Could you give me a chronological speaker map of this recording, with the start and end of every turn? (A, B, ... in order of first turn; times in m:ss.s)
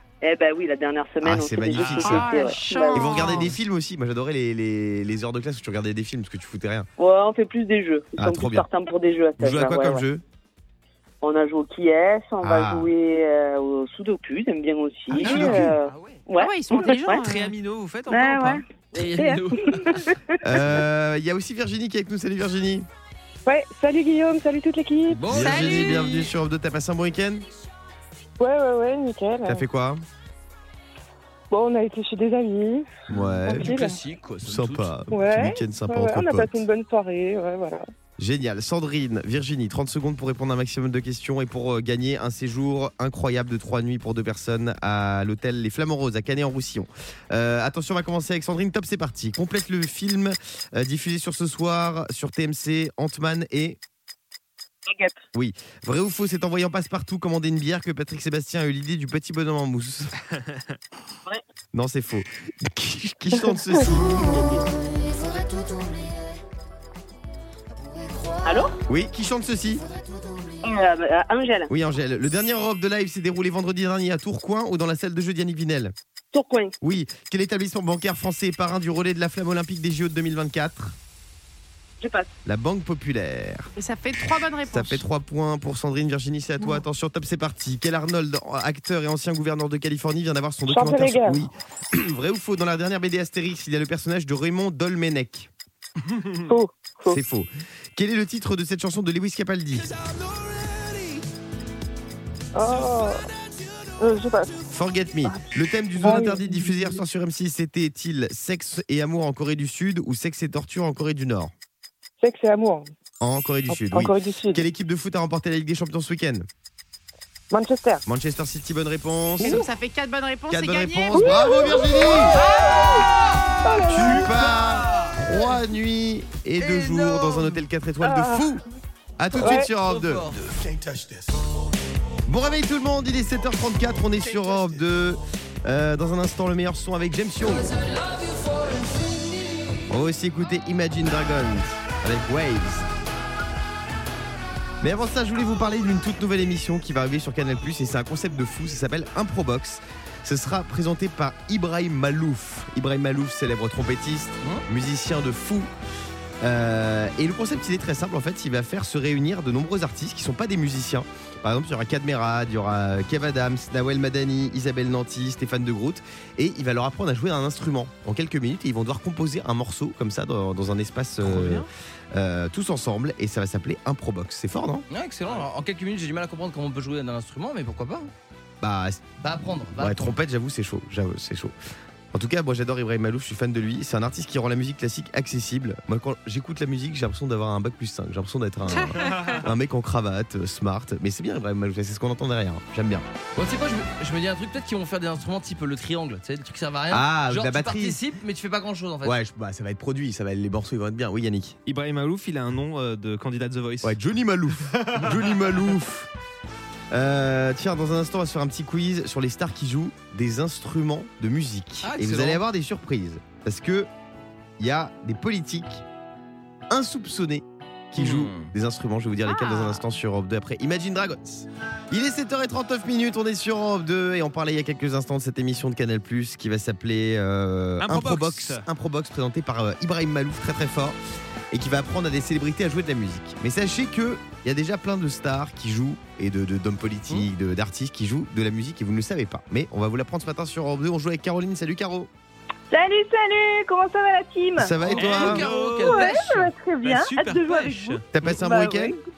0:00.2-0:03.4 A
0:01.2-0:06.9 B
0:01.8-0:02.2 C
0:02.0-0:03.5 D
0:07.0-0:10.0 A
0:08.2-0:08.7 B
0:09.4-0:10.2 B
0:11.2-0:17.2 A
0:12.4-0:12.9 B
0:15.1-0:16.2 E
0:15.2-0:15.7 B
0:16.4-0:17.5 D
0:17.1-0:18.6 C
0:18.1-0:20.3 A
0:19.0-0:20.1 E
0:20.4-0:22.9 B
0:23.5-0:25.3 F
0:25.1-0:26.2 E
0:25.3-0:27.5 B
0:25.3-0:26.3 D
0:28.4-0:29.6 F
0:29.5-0:30.0 B
0:31.5-0:32.9 F
0:33.1-0:33.8 B
0:33.2-0:34.9 E
0:33.4-0:34.0 F
0:34.4-0:36.6 B
0:35.1-0:37.8 F
0:38.2-0:53.8 B
0:54.9-0:55.2 A
0:55.3-1:00.1 B
1:01.7-1:04.6 B
1:08.4-1:08.8 A
1:08.9-1:09.8 B
1:10.6-1:11.7 A
1:11.7-1:15.9 B
1:16.3-1:16.7 A
1:16.8-1:21.0 B
1:22.0-1:22.3 A
1:22.4-1:23.7 B
1:23.8-1:25.0 D
1:24.7-1:35.5 B
1:30.7-1:31.4 F
1:36.5-1:37.2 A
1:36.5-1:36.8 F
1:37.1-1:39.9 B
1:42.6-1:43.3 F
1:44.0-1:44.6 F
1:44.7-1:51.5 B
1:46.0-1:47.0 F
1:52.2-1:52.9 F
1:53.2-1:56.5 B
1:53.7-1:54.6 F
1:57.5-1:58.0 F
1:58.1-1:59.7 B
1:59.4-2:01.4 D
2:00.5-2:02.4 B
2:01.2-2:03.1 F
2:02.3-2:03.1 D
2:03.6-2:04.5 F
2:03.9-2:08.6 B
2:04.1-2:05.0 C
2:06.6-2:07.4 E
2:08.0-2:08.4 F
2:09.2-2:10.3 B
2:09.4-2:09.7 F
2:09.5-2:10.6 E
2:12.3-2:17.8 B
2:19.9-2:22.9 B
2:24.8-2:35.7 B
2:36.4-2:54.9 B
2:51.2-2:51.7 C
2:54.9-2:58.1 E
2:58.6-2:59.1 B
2:59.2-3:00.2 E
2:59.7-3:01.6 B
3:02.1-3:13.1 B
3:08.8-3:09.4 D
3:13.4-3:19.2 E
3:16.9-3:18.0 B
3:19.0-3:21.6 B
3:21.7-3:24.0 C
3:23.8-3:26.1 B
3:24.7-3:25.5 C
3:26.9-3:33.9 B
3:31.8-3:32.4 E
3:34.6-3:35.8 B
3:36.7-3:51.0 B
3:38.0-3:38.5 E
3:39.2-3:39.8 D
3:47.8-3:48.7 C
3:51.5-4:02.1 B
4:02.7-4:04.7 A
4:04.6-4:05.5 B
4:04.8-4:06.2 E
4:05.0-4:08.0 C
4:05.8-4:09.0 A
4:08.1-4:09.0 B